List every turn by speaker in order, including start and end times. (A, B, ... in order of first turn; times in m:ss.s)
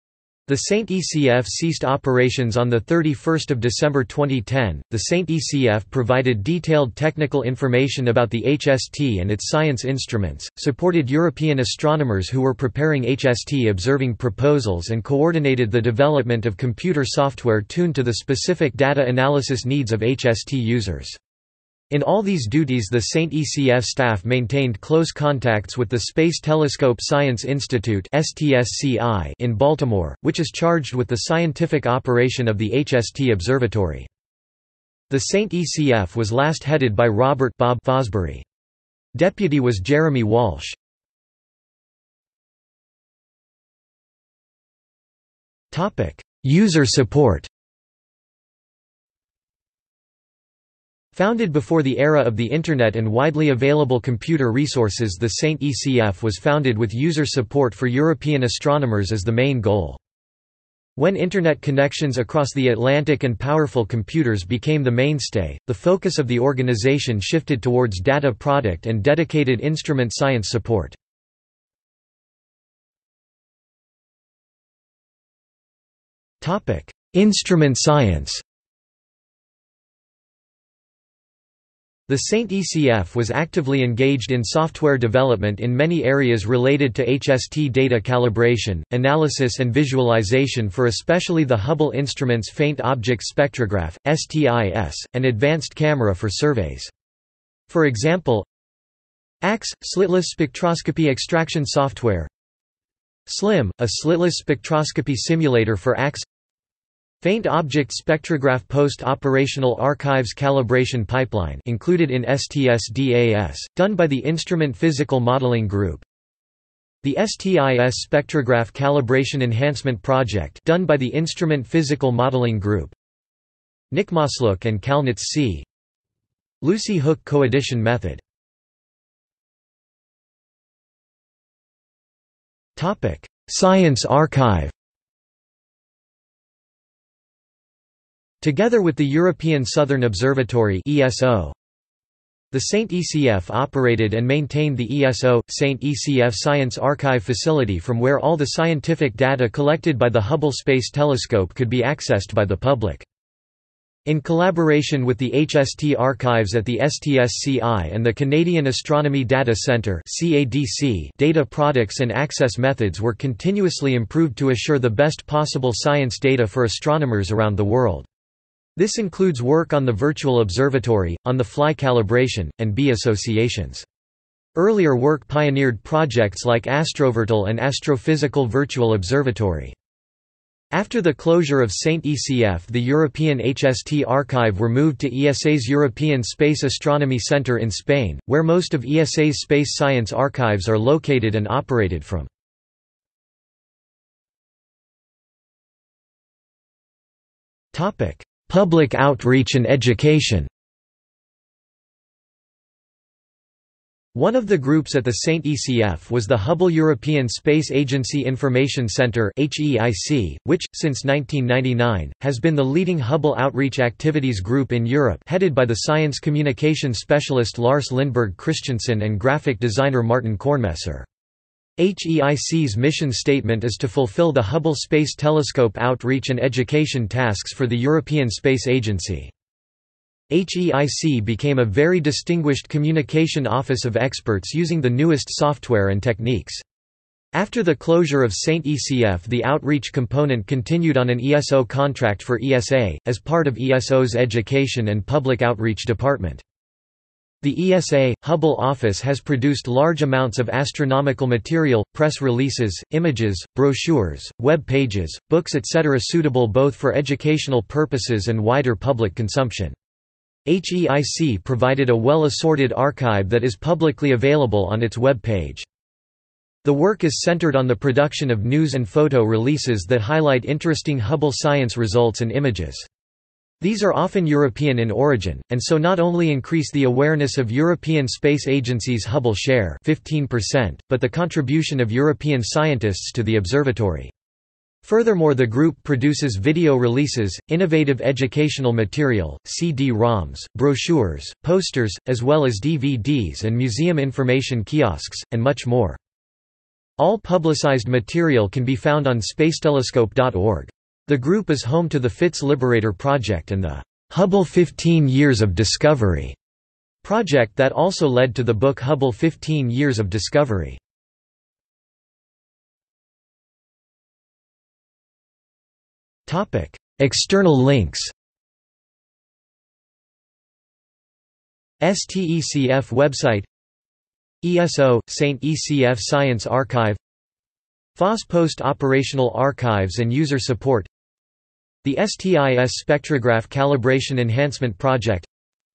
0:00.5-0:21.2 A
0:21.9-0:34.1 A
0:35.1-0:38.4 A
0:39.1-0:40.8 A
0:45.7-0:47.5 A
0:51.1-1:00.0 A
1:01.0-1:11.0 A
1:16.4-1:18.4 A
1:22.1-1:36.9 A
1:37.7-1:38.5 A
1:39.4-1:42.3 A
1:43.2-1:46.2 A
1:47.2-1:56.0 A
1:57.0-2:02.9 A
2:03.9-2:05.6 A
2:06.6-2:08.2 A
2:12.8-2:14.7 A
2:18.4-2:21.6 A
2:22.5-2:33.0 A
2:34.0-2:48.1 A
2:48.8-2:53.8 A
2:54.5-2:59.7 A
3:00.7-3:12.3 A
3:17.7-3:20.5 A
3:24.1-3:41.1 A
3:41.8-3:49.3 A
3:50.3-3:56.6 A
3:57.3-4:06.4 A
4:07.4-4:19.8 A
4:20.4-4:25.6 A
4:26.6-4:32.9 A
4:33.6-4:44.1 A
4:44.8-4:56.0 A
4:57.0-5:06.4 A
5:07.0-5:10.8 A
5:16.3-5:18.1 A
5:21.8-5:23.5 A
5:24.4-5:27.0 A
5:28.0-5:30.9 A
5:31.8-5:35.3 A